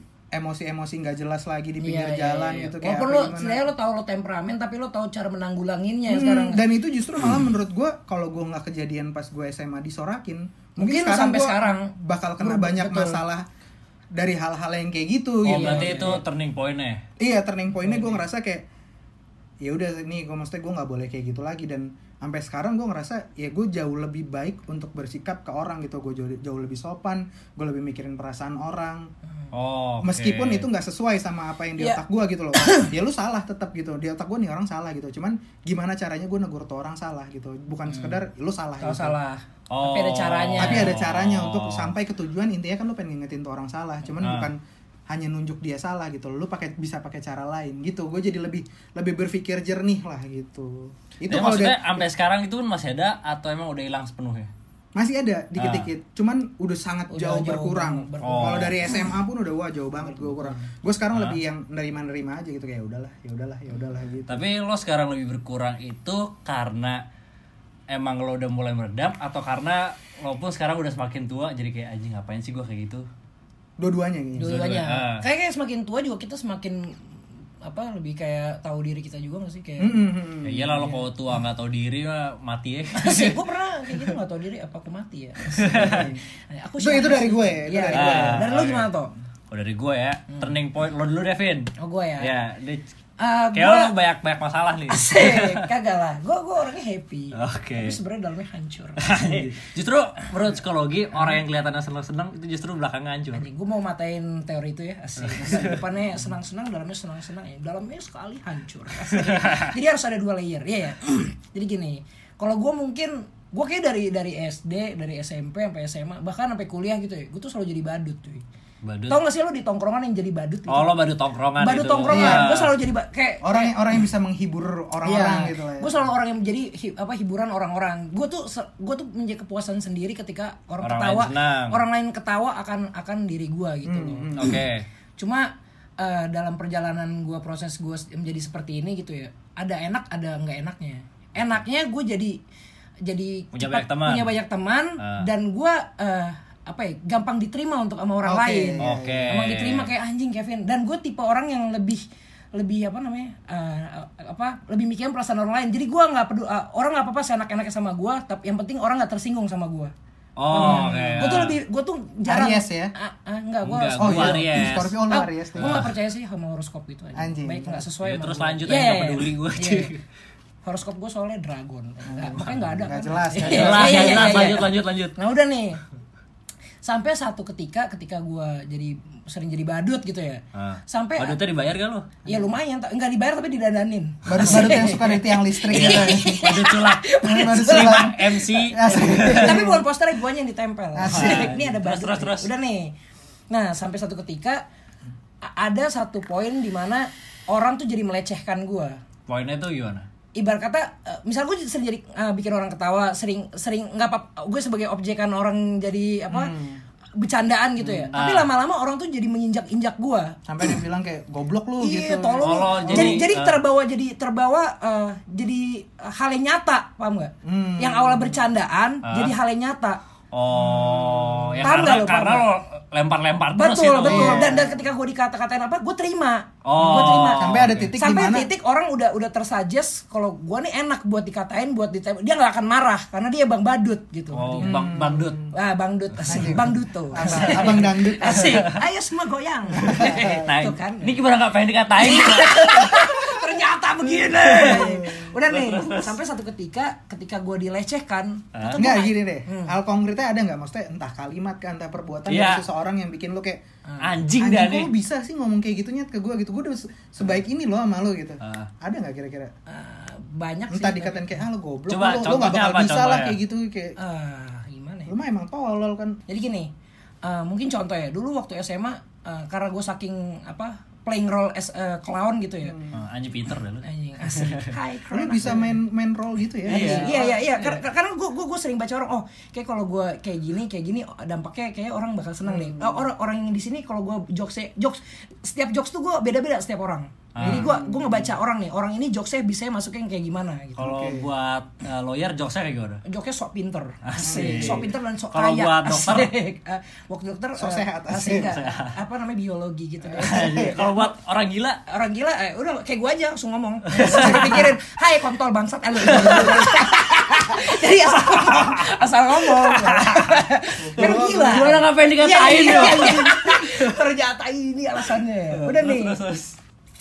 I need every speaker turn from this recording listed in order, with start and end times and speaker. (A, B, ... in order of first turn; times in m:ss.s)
0:00.3-0:03.6 A
0:01.8-0:06.6 B
0:06.1-0:13.4 A
0:10.8-0:13.2 B
0:14.1-0:16.2 A
0:15.4-0:17.0 C
0:15.4-0:16.2 B
0:17.2-0:18.6 A
0:19.6-0:29.1 A
0:29.5-0:30.7 C
0:30.0-0:39.2 A
0:32.6-0:32.9 B
0:37.9-0:38.2 B
0:38.8-0:40.9 B
0:39.7-0:41.9 C
0:40.6-0:52.0 A
0:44.2-0:44.5 C
0:51.3-0:54.5 C
0:54.9-1:04.4 A
0:55.6-0:55.9 C
0:57.1-0:58.9 B
0:58.2-0:58.8 C
1:00.2-1:00.7 B
1:04.3-1:07.0 C
1:07.9-1:13.0 C
1:13.8-1:14.7 A
1:14.4-1:17.0 B
1:14.4-1:15.2 C
1:17.6-1:20.0 B
1:19.8-1:20.9 A
1:20.4-1:23.4 C
1:22.9-1:29.1 B
1:25.6-1:26.1 C
1:25.7-1:26.2 A
1:26.8-1:28.5 A
1:27.9-1:28.9 C
1:29.5-1:32.8 C
1:31.8-1:32.3 B
1:33.2-1:33.9 B
1:33.5-1:35.6 C
1:34.9-1:39.6 B
1:37.3-1:38.0 C
1:39.0-1:43.4 C
1:43.3-1:58.4 B
1:45.2-1:45.8 C
1:49.1-1:49.7 C
1:58.8-1:59.2 C
1:59.1-2:00.9 B
2:00.7-2:02.7 C
2:01.6-2:03.8 B
2:02.1-2:02.5 A
2:03.4-2:05.9 A
2:05.0-2:14.5 B
2:10.8-2:11.8 C
2:13.8-2:14.6 A
2:14.4-2:14.8 C
2:15.2-2:22.4 B
2:23.0-2:39.9 B
2:23.5-2:24.3 C
2:25.0-2:25.2 C
2:28.2-2:29.3 A
2:28.8-2:29.9 C
2:40.4-2:41.6 C
2:40.5-2:44.5 B
2:40.6-2:41.3 A
2:42.2-2:42.9 A
2:43.6-2:45.0 C
2:44.0-2:45.9 A
2:45.1-2:49.9 B
2:45.6-2:45.9 C
2:47.1-2:47.9 A
2:48.0-2:50.0 C
2:50.6-2:55.8 B
2:52.0-2:54.5 A
2:53.4-2:55.2 C
2:56.8-3:01.4 B
3:00.5-3:02.1 C
3:02.2-3:12.9 B
3:04.2-3:06.4 A
3:05.7-3:09.6 C
3:07.2-3:08.2 A
3:08.7-3:09.8 A
3:10.9-3:11.6 A
3:11.0-3:12.5 C
3:13.5-3:14.6 B
3:15.4-3:19.0 B
3:19.3-3:20.0 C
3:20.3-3:26.5 B
3:26.3-3:26.8 A
3:27.2-3:30.4 B
3:27.8-3:28.1 A
3:28.1-3:28.5 C
3:30.5-3:33.3 A
3:31.8-3:40.0 B
3:32.4-3:33.6 C
3:37.4-3:38.4 A
3:39.0-3:39.3 C
3:40.3-3:44.5 C
3:40.5-3:41.9 A
3:41.6-3:42.5 B
3:43.5-3:54.8 B
3:44.0-3:44.8 A
3:46.6-3:47.9 C
3:46.8-3:48.5 A
3:54.3-3:55.5 C
3:54.6-3:55.5 A
3:55.5-4:01.2 B
3:56.2-3:58.6 A
3:57.2-3:58.8 C
3:59.8-4:00.4 A
3:59.8-4:03.1 C
4:02.0-4:09.8 B
4:04.4-4:06.2 C
4:04.5-4:05.3 A
4:08.5-4:08.8 C
4:08.8-4:13.6 A
4:12.3-4:12.6 C
4:14.0-4:14.9 C
4:14.4-4:19.5 A
4:18.4-4:18.7 C
4:19.7-4:21.4 B
4:20.7-4:24.0 A
4:21.9-4:23.4 C
4:24.0-4:25.1 B
4:25.1-4:26.2 A
4:26.3-4:26.7 B
4:27.2-4:32.8 B
4:32.6-4:33.0 A
4:32.9-4:34.7 C
4:33.8-4:35.8 B
4:35.1-4:37.3 A
4:36.6-4:37.8 C
4:36.6-4:50.9 B
4:42.4-4:43.1 A
4:47.3-4:47.7 C
4:47.4-4:48.3 A
4:50.8-4:53.0 C
4:50.8-4:51.3 A
4:53.0-5:01.0 B
4:54.0-4:56.3 C
4:54.2-4:54.9 A
4:57.6-4:58.5 A
4:58.3-4:58.9 C
5:00.1-5:01.8 C
5:00.3-5:00.7 A
5:01.9-5:16.2 B
5:03.9-5:04.7 C
5:06.0-5:07.0 A
5:06.1-5:06.7 C
5:08.3-5:08.8 C
5:09.4-5:10.4 C
5:10.8-5:11.8 A
5:11.0-5:14.0 C
5:12.7-5:13.1 A
5:15.5-5:16.6 C